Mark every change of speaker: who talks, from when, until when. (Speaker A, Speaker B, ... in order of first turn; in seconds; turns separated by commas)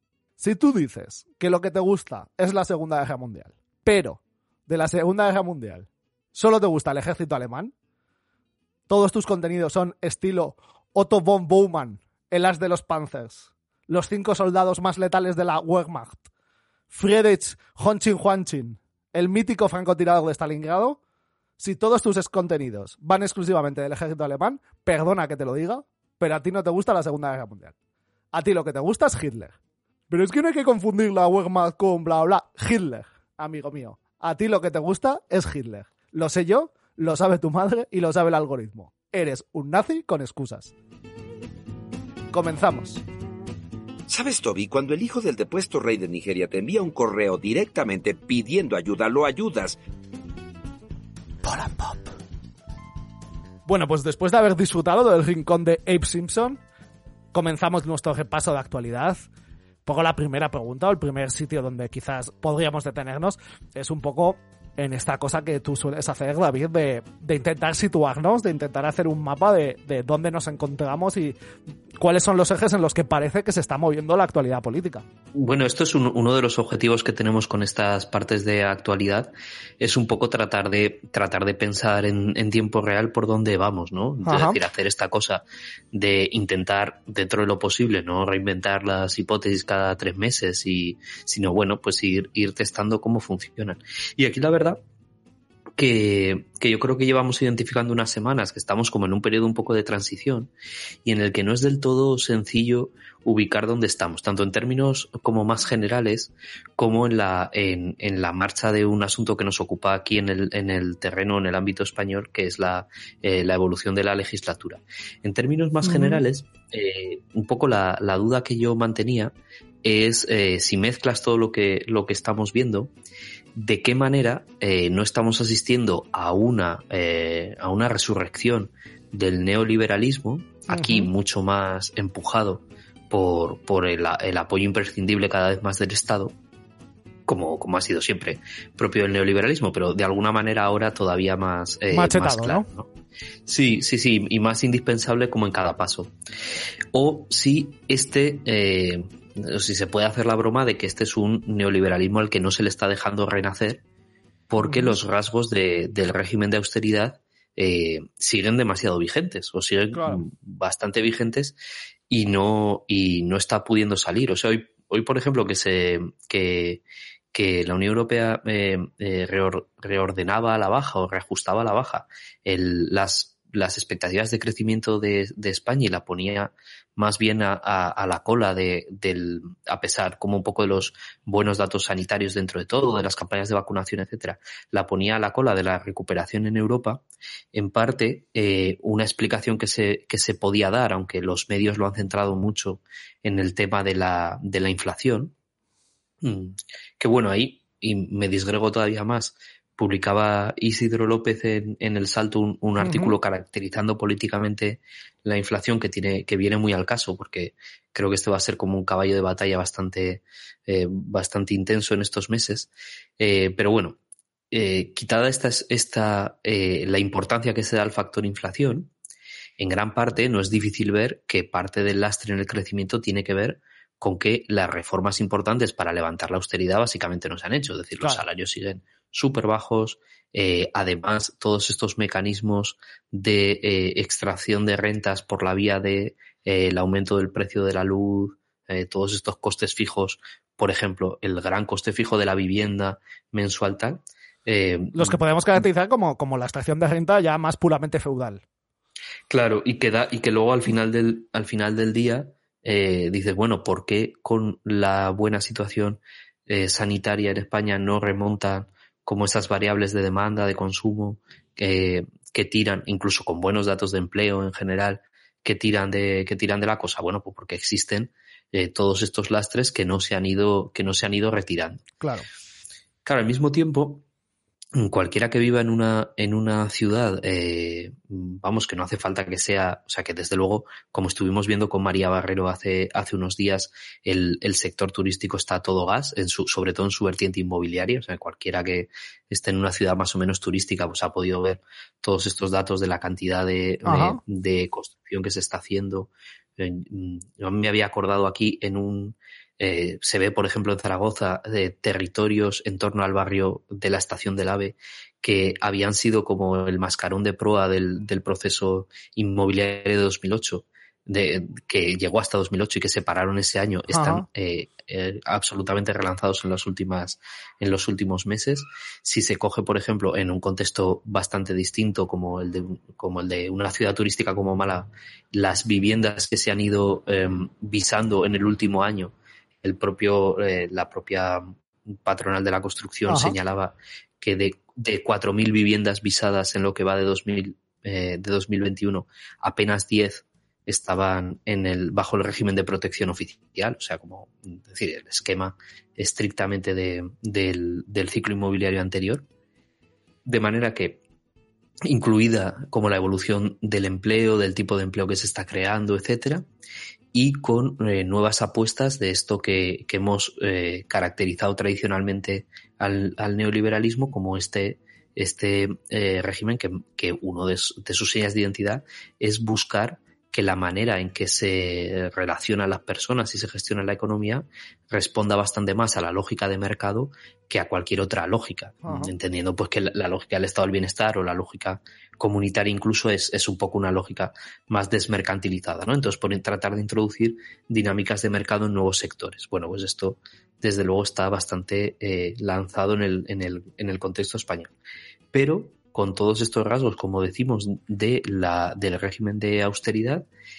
Speaker A: 0.4-7.7, Speaker A: 8.9-16.2, Speaker A: 16.9-21.0, Speaker A: 21.6-27.7, Speaker A: 28.3-29.6, Speaker A: 30.1-40.7, Speaker A: 42.3-43.0, Speaker B: 44.1-49.8, Speaker A: 51.4-52.1, Speaker A: 53.7-56.6, Speaker A: 57.3-59.2, Speaker A: 59.8-71.3, Speaker A: 72.0-75.0, Speaker C: 75.3-94.8, Speaker A: 84.2-84.6, Speaker C: 95.8-100.5, Speaker C: 101.0-122.9, Speaker A: 115.8-116.2, Speaker C: 123.5-136.3, Speaker A: 130.7-131.1, Speaker C: 137.3-142.9, Speaker A: 141.9-142.7, Speaker C: 143.4-146.1, Speaker C: 146.9-153.8, Speaker C: 154.5-161.6, Speaker A: 154.6-154.9, Speaker A: 159.9-160.2, Speaker C: 162.1-195.3, Speaker C: 196.2-214.0, Speaker A: 202.8-203.1, Speaker C: 214.5-218.9, Speaker C: 219.6-245.2, Speaker A: 244.9-248.4, Speaker C: 249.3-271.8, Speaker A: 272.0-272.3, Speaker C: 273.0-274.0, Speaker C: 274.7-349.2, Speaker A: 293.8-294.2, Speaker A: 313.9-314.2, Speaker A: 333.1-333.4, Speaker C: 350.2-351.0, Speaker C: 351.9-356.4, Speaker C: 357.1-394.7, Speaker A: 378.8-379.1, Speaker C: 395.3-400.3